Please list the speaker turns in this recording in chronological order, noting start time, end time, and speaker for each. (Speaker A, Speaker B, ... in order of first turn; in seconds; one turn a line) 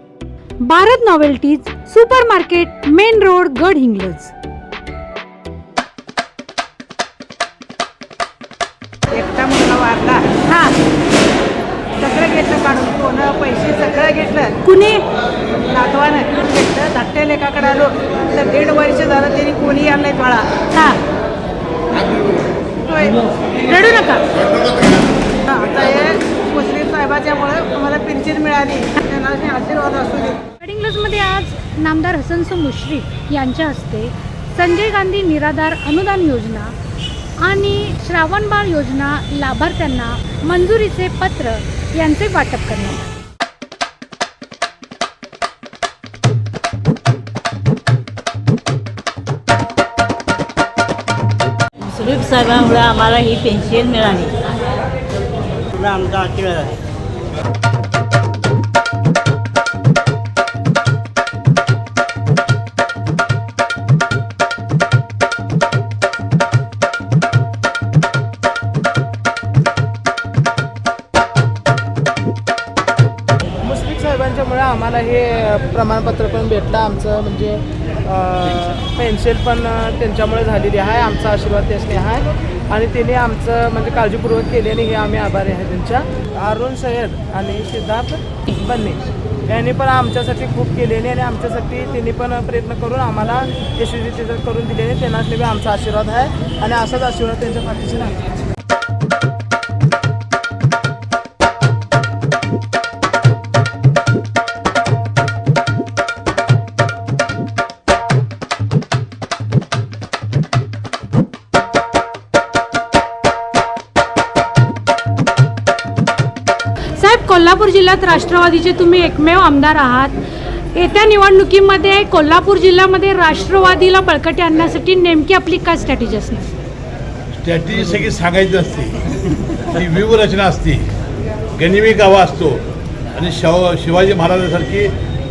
Speaker A: 0.6-4.3
Speaker B: 9.1-10.3
Speaker A: 10.5-10.8
Speaker B: 12.0-14.6
Speaker A: 14.6-15.0
Speaker B: 15.7-20.5
Speaker A: 20.7-21.0
Speaker B: 22.9-23.3
Speaker A: 23.6-24.2
Speaker B: 25.5-30.4
Speaker A: 30.6-36.8
Speaker A: 37.4-43.1
Speaker C: 51.9-54.4
Speaker C: 55.7-56.8
Speaker D: 73.6-98.2
Speaker A: 117.0-120.2
Speaker A: 120.8-126.5
Speaker E: 127.3-130.9
Speaker E: 131.6-132.6
Speaker E: 133.1-134.9